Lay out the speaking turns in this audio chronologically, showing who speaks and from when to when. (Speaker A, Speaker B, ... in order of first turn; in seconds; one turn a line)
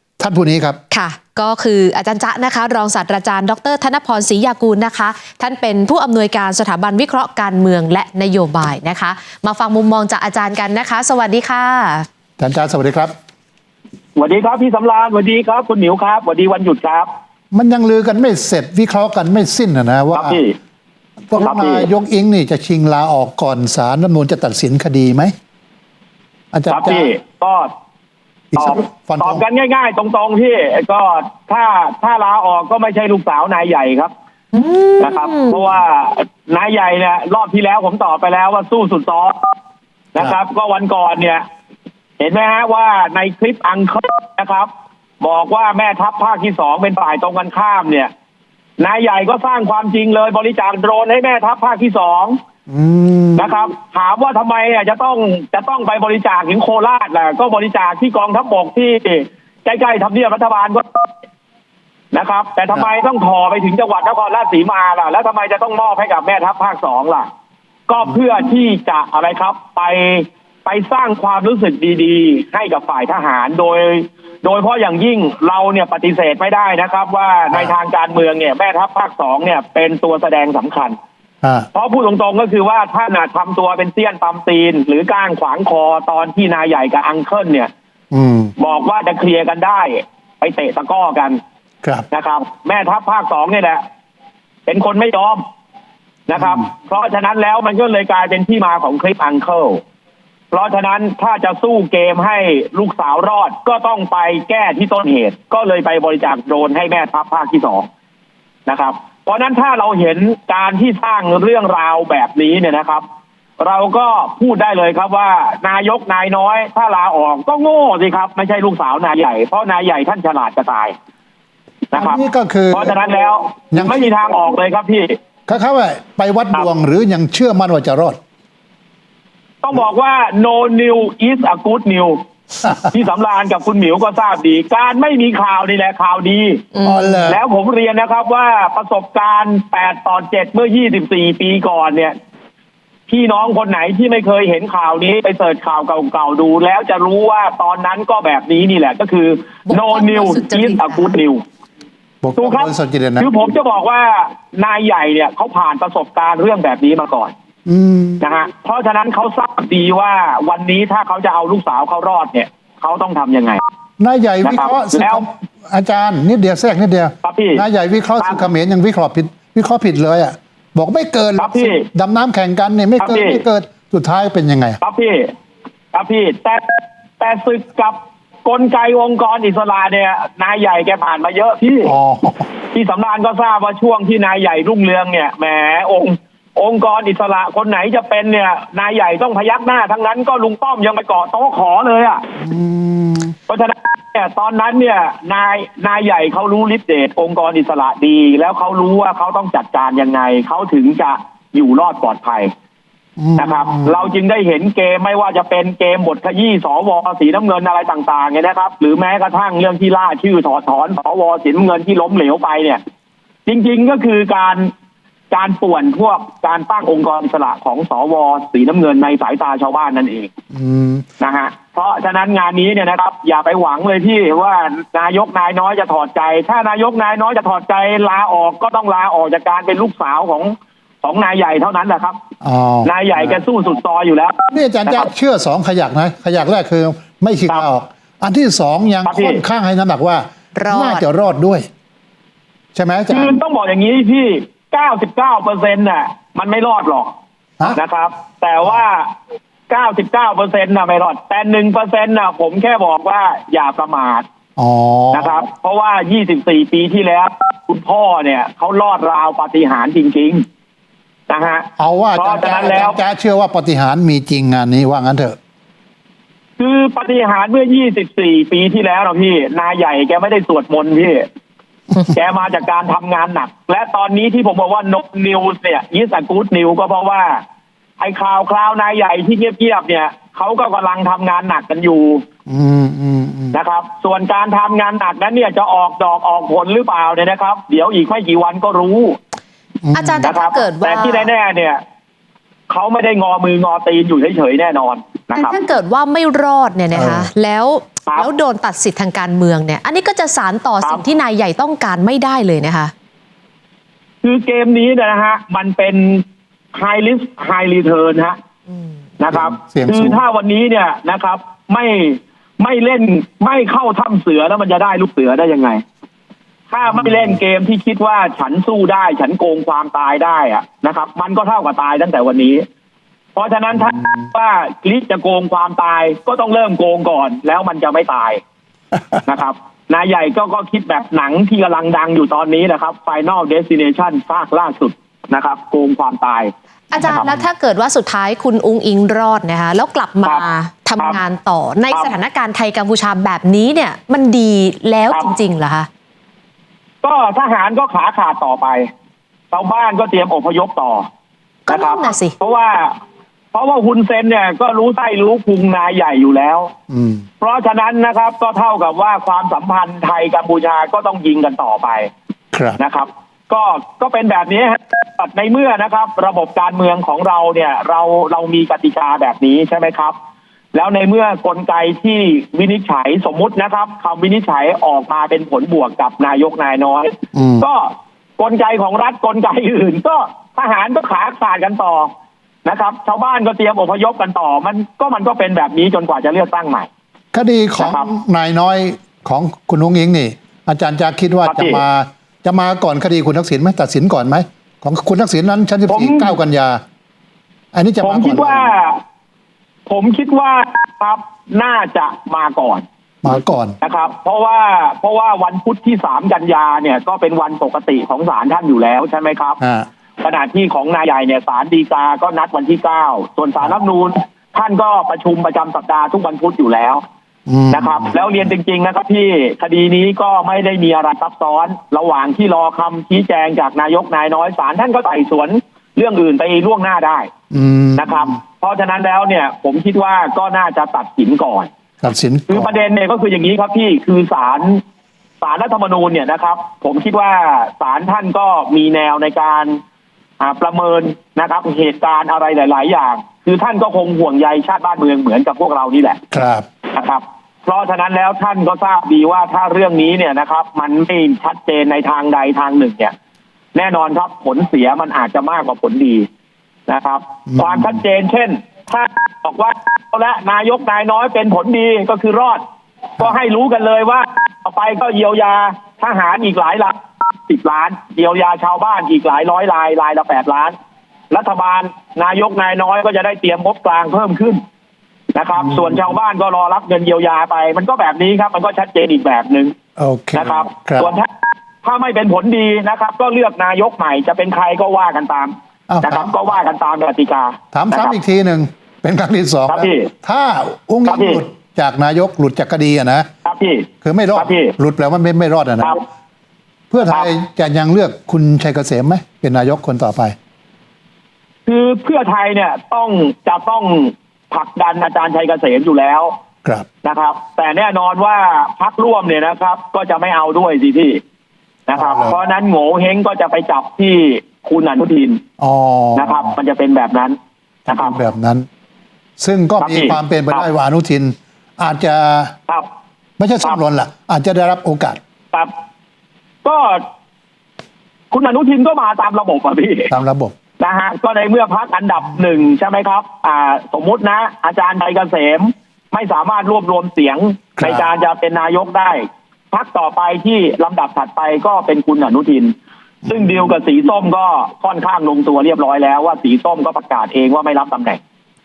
Speaker A: 0.2-0.8
Speaker B: 0.9-12.1
Speaker A: 12.4-13.1
Speaker C: 14.2-17.1
Speaker A: 17.5-20.4
Speaker C: 20.1-20.6
Speaker A: 21.3-25.3
Speaker C: 21.4-21.9
Speaker A: 26.5-27.1
Speaker C: 26.7-27.7
Speaker A: 28.5-29.4
Speaker C: 28.6-34.1
Speaker B: 34.5-35.5
Speaker C: 35.0-39.5
Speaker C: 40.1-41.4
Speaker C: 42.2-44.7
Speaker C: 45.2-48.1
Speaker C: 48.8-52.4
Speaker A: 52.7-53.5
Speaker C: 53.4-61.1
Speaker C: 62.1-67.3
Speaker C: 67.9-81.0
Speaker A: 81.4-81.7
Speaker C: 81.7-87.7
Speaker A: 88.1-88.5
Speaker C: 88.6-91.4
Speaker C: 92.1-93.8
Speaker C: 94.7-95.4
Speaker C: 96.3-99.8
Speaker C: 100.5-107.9
Speaker C: 108.7-113.0
Speaker C: 113.6-120.9
Speaker C: 121.9-125.2
Speaker A: 121.9-123.0
Speaker A: 123.7-124.1
Speaker A: 125.5-128.2
Speaker C: 129.6-132.2
Speaker A: 132.6-132.9
Speaker C: 132.8-136.6
Speaker B: 136.7-137.3
Speaker A: 136.8-137.4
Speaker C: 137.3-142.1
Speaker C: 143.1-151.4
Speaker B: 149.7-151.2
Speaker A: 152.2-153.3
Speaker C: 152.4-157.3
Speaker A: 157.7-158.2
Speaker C: 158.2-163.6
Speaker A: 164.0-174.8
Speaker C: 164.4-165.2
Speaker C: 167.2-167.6
Speaker C: 168.2-168.4
Speaker C: 171.4-171.9
Speaker C: 173.0-173.4
Speaker C: 174.8-175.3
Speaker C: 175.9-176.6
Speaker C: 177.2-181.9
Speaker A: 181.8-182.5
Speaker C: 182.7-192.2
Speaker A: 192.4-193.3
Speaker C: 193.5-202.5
Speaker A: 203.2-204.0
Speaker C: 203.3-212.8
Speaker C: 213.4-214.7
Speaker C: 215.3-220.3
Speaker A: 220.5-221.0
Speaker C: 221.2-232.2
Speaker A: 232.4-233.4
Speaker C: 232.8-235.1
Speaker A: 234.5-241.7
Speaker C: 239.0-239.4
Speaker B: 240.5-241.0
Speaker A: 242.7-243.4
Speaker C: 243.1-247.1
Speaker C: 247.7-249.1
Speaker C: 249.7-254.2
Speaker A: 254.6-255.4
Speaker C: 255.1-260.4
Speaker C: 261.3-263.0
Speaker A: 261.8-265.4
Speaker C: 266.6-271.2
Speaker C: 272.0-277.4
Speaker C: 278.0-282.2
Speaker A: 282.5-283.6
Speaker C: 283.5-289.2
Speaker A: 289.8-290.2
Speaker B: 289.9-291.3
Speaker C: 290.2-291.8
Speaker C: 292.7-295.6
Speaker B: 295.3-302.9
Speaker A: 296.9-297.3
Speaker C: 304.2-308.4
Speaker C: 309.2-315.8
Speaker A: 309.3-310.2
Speaker C: 316.7-322.6
Speaker A: 316.9-317.4
Speaker C: 323.3-328.4
Speaker A: 323.8-324.2
Speaker C: 329.2-337.3
Speaker B: 336.9-345.9
Speaker C: 347.0-348.9
Speaker C: 349.5-351.1
Speaker B: 351.7-352.3
Speaker C: 351.7-353.0
Speaker C: 353.5-356.7
Speaker A: 356.9-357.2
Speaker C: 357.4-362.1
Speaker A: 362.5-362.8
Speaker C: 362.8-370.1
Speaker C: 370.7-382.1
Speaker A: 377.3-377.6
Speaker C: 382.6-386.9
Speaker A: 387.3-396.8
Speaker C: 387.8-388.1
Speaker C: 391.4-391.8
Speaker C: 395.9-396.4
Speaker A: 397.7-398.7
Speaker C: 398.0-399.0
Speaker C: 399.9-402.8
Speaker A: 403.2-403.8
Speaker C: 403.8-409.6
Speaker A: 409.6-409.9
Speaker C: 410.2-417.0
Speaker A: 417.5-418.1
Speaker C: 417.7-427.3
Speaker A: 427.5-428.3
Speaker C: 427.9-431.7
Speaker A: 432.0-432.8
Speaker C: 432.5-434.8
Speaker C: 435.4-439.8
Speaker C: 440.4-446.2
Speaker A: 446.3-446.6
Speaker C: 446.9-453.1
Speaker C: 453.7-456.2
Speaker C: 456.9-462.6
Speaker A: 457.5-457.9
Speaker C: 463.2-470.7
Speaker C: 471.3-474.6
Speaker C: 475.3-479.7
Speaker A: 480.0-481.1
Speaker C: 480.3-481.3
Speaker C: 481.8-488.1
Speaker A: 485.9-486.3
Speaker A: 487.7-493.3
Speaker C: 489.7-490.1
Speaker C: 491.1-491.4
Speaker C: 493.4-494.7
Speaker A: 494.0-496.0
Speaker A: 496.9-500.3
Speaker C: 501.7-506.3
Speaker C: 507.0-511.2
Speaker C: 511.9-515.4
Speaker A: 511.9-512.4
Speaker A: 515.6-516.5
Speaker C: 516.1-517.4
Speaker C: 517.9-518.2
Speaker A: 517.9-518.6
Speaker A: 519.4-522.5
Speaker C: 519.8-520.7
Speaker A: 523.4-525.2
Speaker C: 526.6-527.0
Speaker C: 528.3-530.1
Speaker A: 530.1-530.5
Speaker C: 530.8-542.7
Speaker A: 537.8-538.0
Speaker A: 543.2-543.7
Speaker C: 543.2-548.2